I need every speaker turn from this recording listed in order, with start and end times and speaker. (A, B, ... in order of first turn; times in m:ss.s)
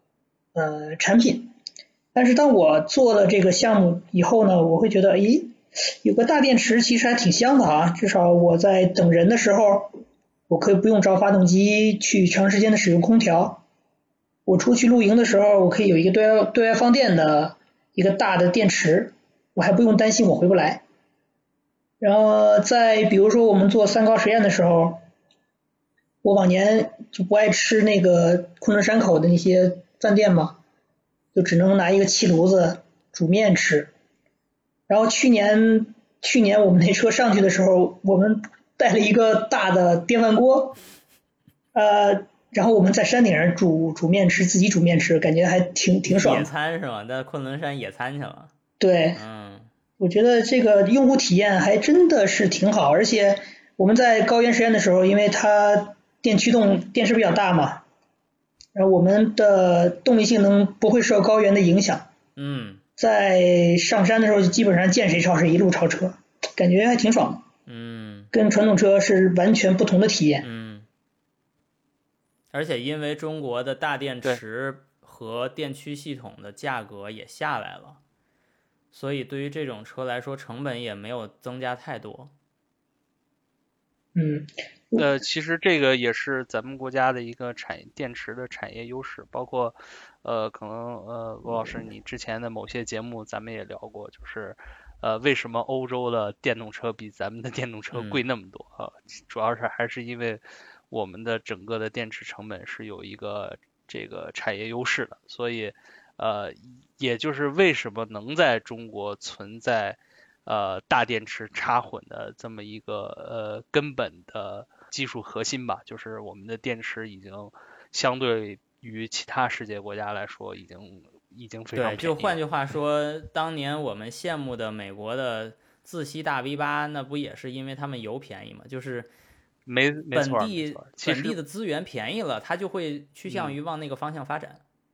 0:00.6-0:01.5 A
0:02.1-0:10.0 A
0:10.5-0:13.6 A
0:14.5-0:20.8 A
0:22.0-0:25.0 A
0:26.2-0:30.6 A
0:31.3-0:33.9 A
0:34.9-0:40.8 A
0:41.7-0:46.5 A
0:46.1-0:48.5 B
0:48.8-0:49.2 A
0:49.2-0:49.7 B
0:50.0-0:57.8 A
0:58.8-1:02.1 A
1:02.4-1:02.8 B
1:03.0-1:07.4 A
1:07.7-1:08.3 B
1:08.3-1:10.5 A
1:10.4-1:10.9 B
1:12.5-1:18.0 B
1:18.9-1:22.3 B
1:24.2-1:25.1 A
1:25.0-2:02.4 C
1:37.9-1:38.2 B
2:01.8-2:09.1 B
2:09.7-2:11.4 C
2:10.1-2:14.6 B
2:13.3-2:13.6 C